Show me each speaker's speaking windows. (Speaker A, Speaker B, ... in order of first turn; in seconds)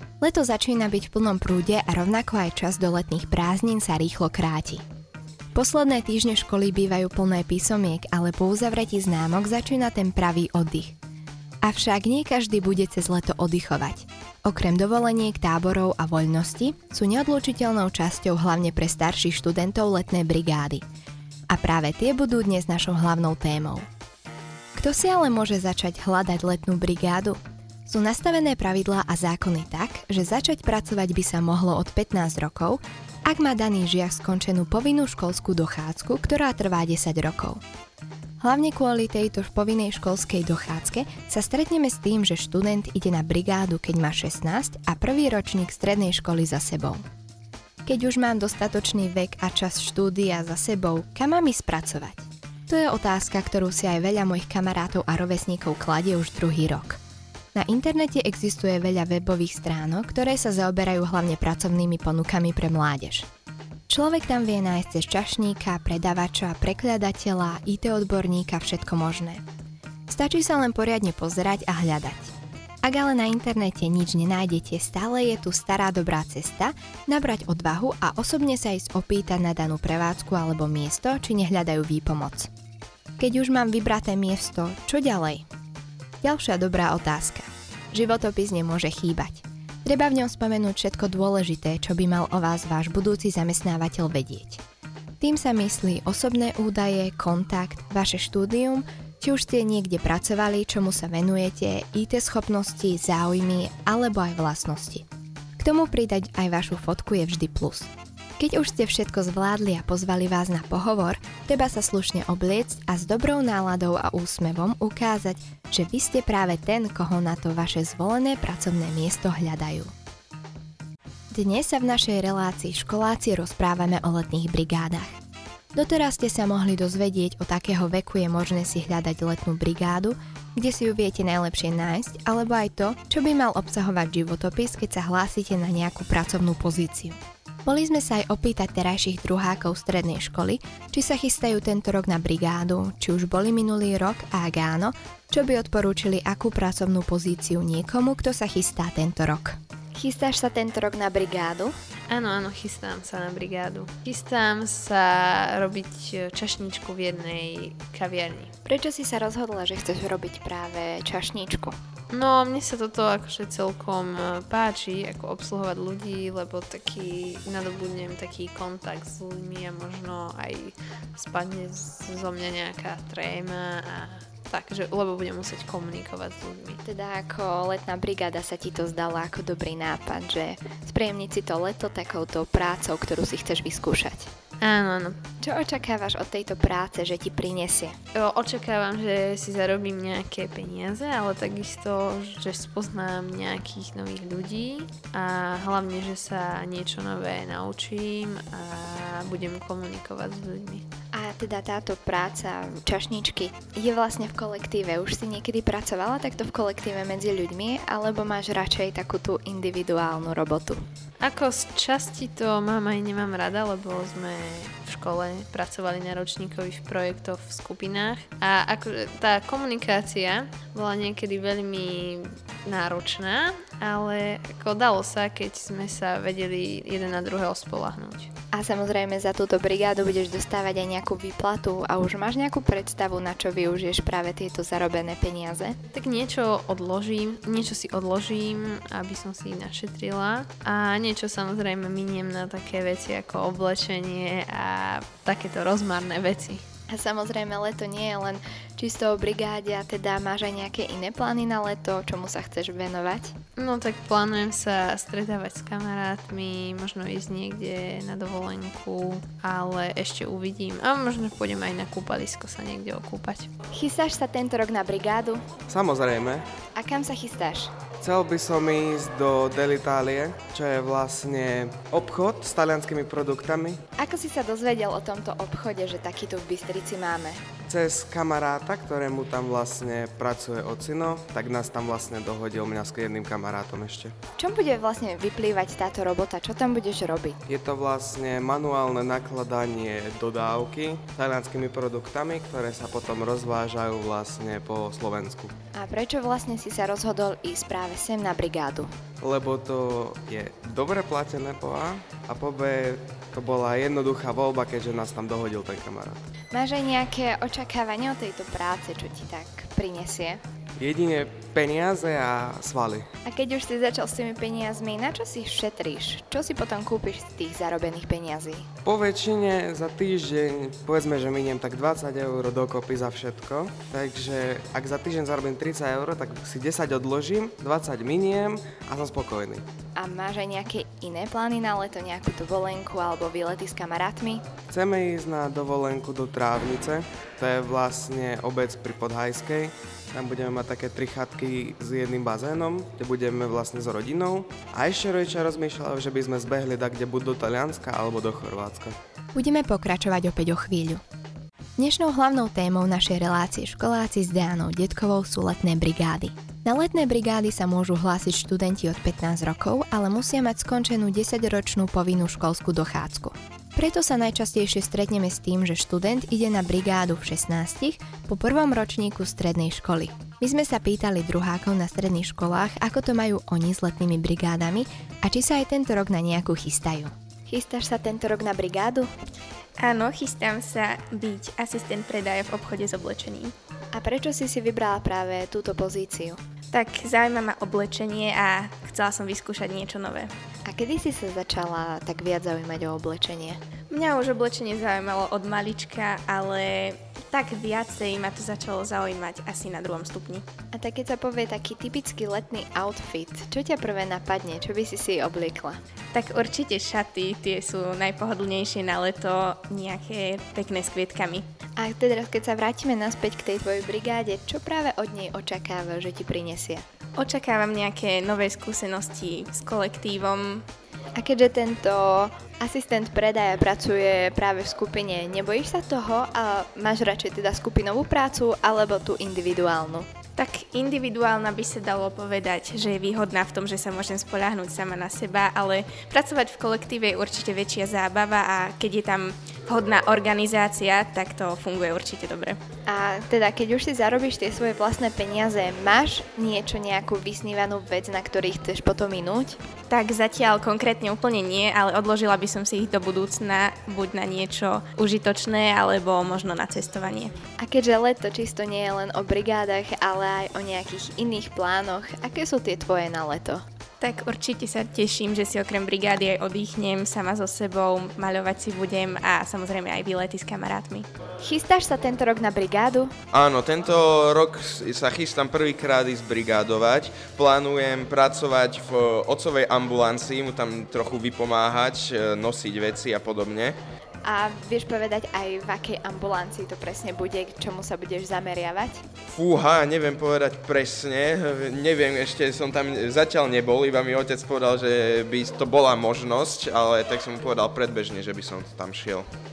Speaker A: 0.2-4.8, 5.5-11.0, 11.6-20.8, 21.5-23.9, 24.8-37.6, 38.4-47.0, 47.9-57.0, 57.5-63.3, 63.9-69.4, 70.1-82.5, 83.2-85.5, 86.2-94.6, 95.2-105.0, 105.6-119.9, 121.3-125.1, 125.8-151.7, 158.7-161.8, 176.8-184.3, 185.4-187.9, 201.1-210.8, 228.5-235.8, 246.9-253.3, 263.7-265.4, 266.8-267.7, 274.0-277.4, 284.4-287.4, 295.8-298.9, 306.5-310.4, 313.2-318.7, 330.0-334.4, 349.3-351.0, 351.8-379.1, 383.9-386.4, 390.7-393.6, 400.7-405.8, 411.8-416.8, 421.2-430.1, 442.9-449.6, 457.6-463.6, 471.4-473.1, 484.2-489.0
Speaker B: 152.1-158.5, 162.1-176.8, 184.6-185.2, 188.1-200.8, 211.2-228.3, 235.9-246.6, 253.6-263.5
Speaker C: 265.7-266.5, 268.0-273.8, 277.7-284.1, 287.5-295.5, 299.2-306.2, 310.8-313.1, 318.9-329.6, 334.7-349.0
Speaker D: 379.8-383.5, 386.7-390.3, 393.9-400.5, 406.1-411.5, 417.2-420.7, 430.4-442.6, 449.9-457.3, 464.0-471.1
Speaker E: 473.3-483.8, 489.3-499.3